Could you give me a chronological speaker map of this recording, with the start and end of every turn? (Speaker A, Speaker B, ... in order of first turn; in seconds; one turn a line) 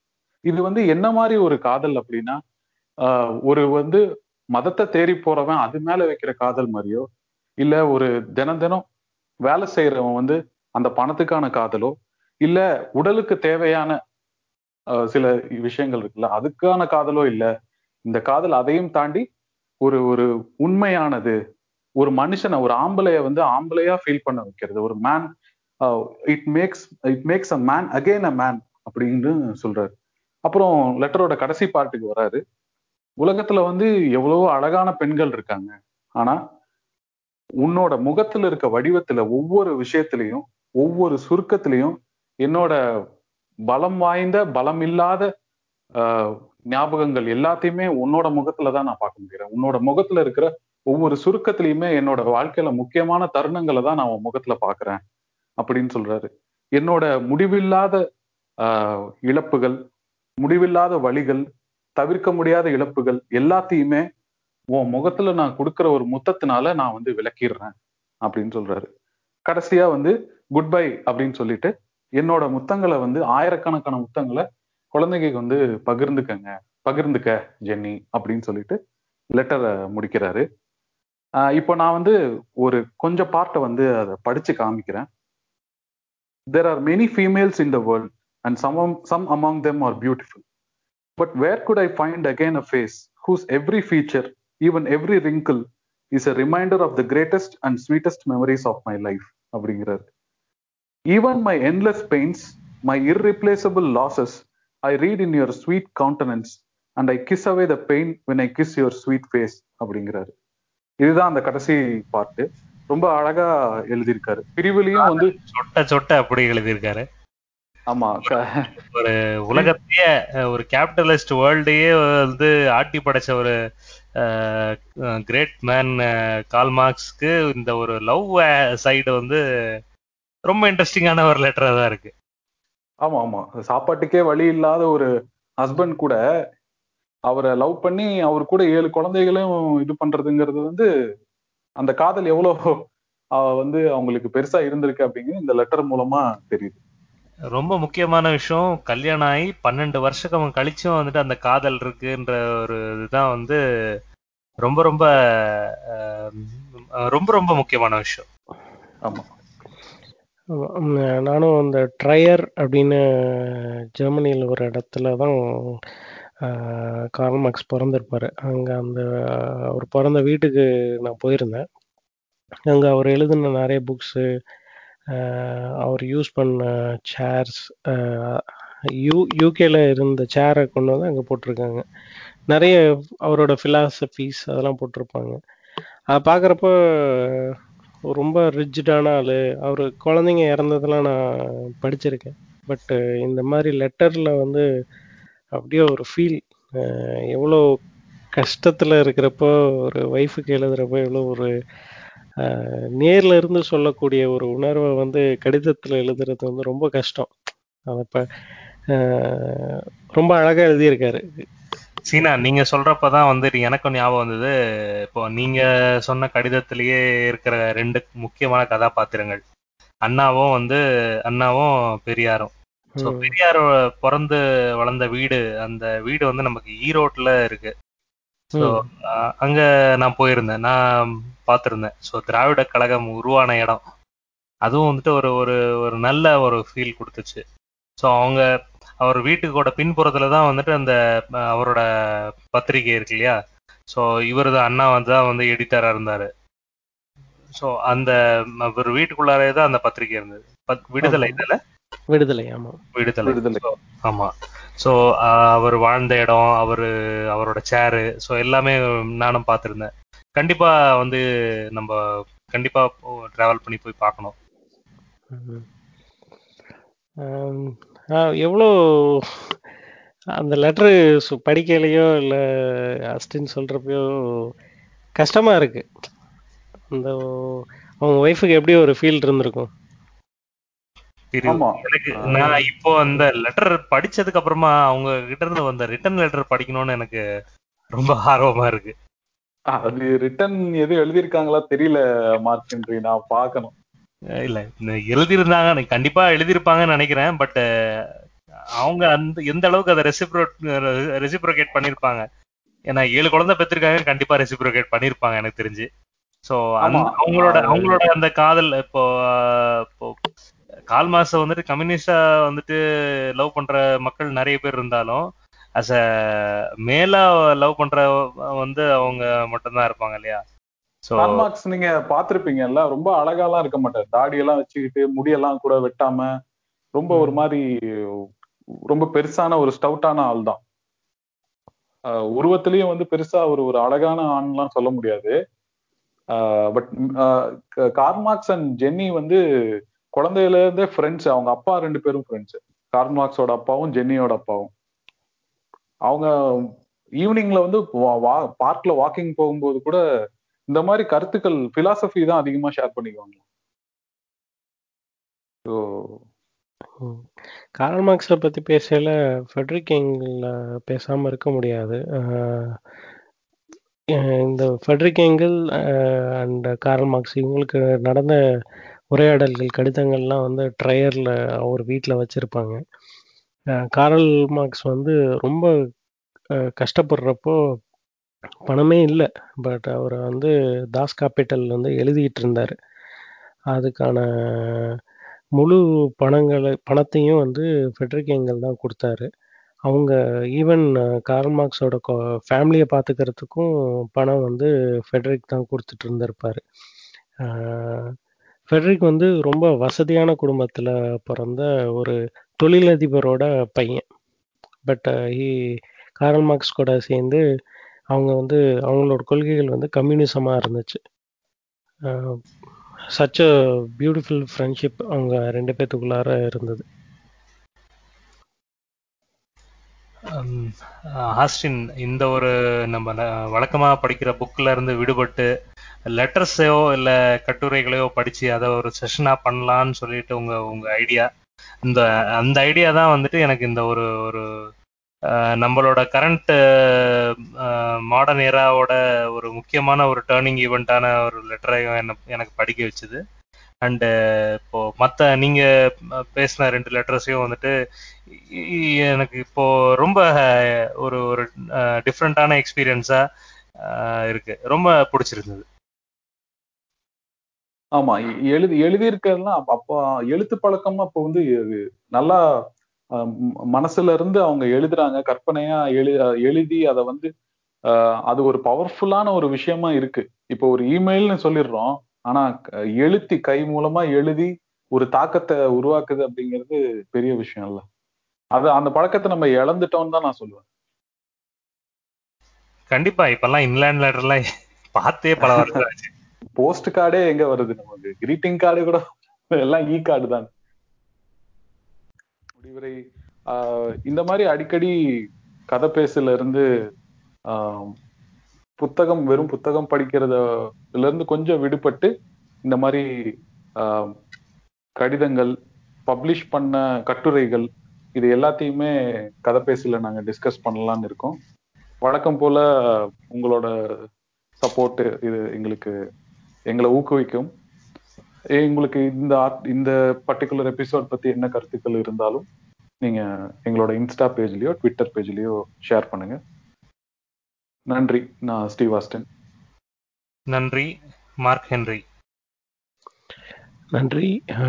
Speaker A: 0.5-2.4
Speaker A: 3.0-4.0
Speaker A: 4.5-7.0
Speaker A: 7.6-8.8
Speaker A: 9.5-11.9
Speaker A: 12.5-14.0
Speaker A: 15.1-17.5
Speaker A: 18.1-19.2
Speaker A: 19.8-21.4
Speaker A: 22.0-25.3
Speaker A: 25.9-29.9
Speaker A: 30.5-32.4
Speaker A: 33.2-36.4
Speaker A: 37.6-42.8
Speaker A: 43.7-45.3
Speaker A: 46.0-55.0
Speaker A: 55.6-58.0
Speaker A: 58.6-59.8
Speaker A: 60.4-61.4
Speaker A: 62.0-64.1
Speaker A: 64.8-67.7
Speaker A: 68.3-68.9
Speaker A: 69.5-78.8
Speaker A: 79.4-80.5
Speaker A: 81.5-85.1
Speaker A: 86.5-90.4
Speaker A: 91.2-95.6
Speaker A: 96.1-100.1
Speaker A: 101.1-110.3
Speaker A: 111.0-115.3
Speaker B: 115.0-117.0
Speaker A: 117.9-118.7
Speaker B: 118.8-123.5
Speaker B: 124.2-124.7
Speaker B: 125.3-129.4
Speaker B: 130.5-132.1
Speaker A: 133.1-135.1
Speaker A: 135.6-136.2
Speaker A: 137.3-140.8
Speaker A: 141.8-142.7
Speaker A: 143.4-146.8
Speaker B: 147.6-153.6
Speaker B: 154.7-155.1
Speaker B: 155.6-156.5
Speaker B: 157.1-158.3
Speaker C: 160.6-165.8
Speaker C: 166.5-171.6
Speaker C: 172.7-174.2
Speaker C: 175.1-178.4
Speaker C: 179.0-181.8
Speaker C: 182.5-185.4
Speaker C: 186.1-187.5
Speaker C: 188.1-191.2
Speaker C: 191.8-194.6
Speaker C: 195.6-197.6
Speaker C: 198.4-201.5
Speaker C: 202.4-207.3
Speaker C: 207.9-208.2
Speaker C: 208.9-211.5
Speaker B: 212.1-214.5
Speaker B: 215.1-219.4
Speaker B: 220.1-227.7
Speaker C: 223.0-223.3
Speaker C: 228.6-228.8
Speaker B: 228.6-230.8
Speaker B: 231.5-233.8
Speaker B: 234.7-237.4
Speaker B: 238.0-238.4
Speaker B: 239.0-241.0
Speaker B: 241.5-241.8
Speaker B: 242.5-243.4
Speaker B: 243.9-246.3
Speaker B: 247.6-251.6
Speaker C: 251.0-251.4
Speaker C: 252.1-252.8
Speaker B: 252.9-261.2
Speaker A: 253.2-253.6
Speaker B: 262.5-264.3
Speaker C: 265.3-265.6
Speaker C: 267.2-269.6
Speaker C: 270.4-274.5
Speaker C: 275.2-275.9
Speaker C: 276.9-279.7
Speaker B: 281.3-287.2
Speaker A: 281.5-281.8
Speaker A: 282.3-282.6
Speaker B: 288.0-288.9
Speaker A: 289.8-293.7
Speaker B: 294.4-297.6
Speaker B: 298.7-302.2
Speaker B: 302.9-305.9
Speaker B: 306.5-310.1
Speaker A: 306.8-308.0
Speaker B: 310.9-312.8
Speaker B: 313.4-315.2
Speaker B: 315.8-318.1
Speaker B: 318.6-320.4
Speaker B: 321.1-321.4
Speaker A: 321.2-326.3
Speaker A: 327.0-327.6
Speaker A: 328.9-330.6
Speaker A: 332.4-335.3
Speaker A: 336.4-339.4
Speaker A: 340.2-344.7
Speaker A: 347.2-350.0
Speaker A: 350.7-353.4
Speaker A: 355.7-356.2
Speaker C: 357.8-362.8
Speaker C: 364.5-368.4
Speaker C: 369.1-372.8
Speaker C: 373.9-375.7
Speaker C: 376.8-377.6
Speaker C: 378.7-382.8
Speaker C: 383.7-385.0
Speaker C: 385.6-389.3
Speaker C: 389.9-396.6
Speaker C: 397.4-398.1
Speaker C: 398.7-404.0
Speaker C: 404.9-405.5
Speaker C: 406.2-407.4
Speaker C: 408.1-411.0
Speaker C: 412.1-412.4
Speaker C: 413.2-413.5
Speaker C: 414.0-416.9
Speaker B: 420.3-420.7
Speaker B: 421.4-425.5
Speaker B: 426.2-431.3
Speaker B: 431.9-434.4
Speaker B: 435.6-443.2
Speaker B: 444.6-445.6
Speaker B: 446.4-447.7
Speaker B: 448.3-450.4
Speaker B: 451.0-451.5
Speaker B: 452.1-453.2
Speaker B: 453.8-455.6
Speaker A: 458.0-462.4
Speaker A: 463.2-467.3
Speaker A: 468.3-477.9
Speaker A: 478.6-480.6
Speaker B: 482.9-484.4
Speaker B: 485.0-486.1
Speaker A: 486.6-489.0
Speaker A: 489.6-490.5
Speaker A: 492.6-493.0
Speaker A: 493.5-494.9
Speaker A: 495.7-496.6
Speaker A: 497.5-497.9
Speaker A: 498.8-500.4
Speaker A: 500.9-502.1
Speaker A: 502.7-503.0
Speaker A: 503.8-504.1
Speaker A: 505.0-505.5
Speaker A: 506.1-508.9
Speaker A: 509.4-511.4
Speaker A: 512.0-512.6
Speaker A: 513.3-513.7
Speaker A: 514.6-515.9
Speaker A: 516.7-517.5
Speaker A: 518.6-522.5
Speaker A: 523.0-526.4
Speaker A: 527.9-529.2
Speaker B: 530.5-530.9
Speaker B: 531.4-532.0
Speaker C: 534.0-534.3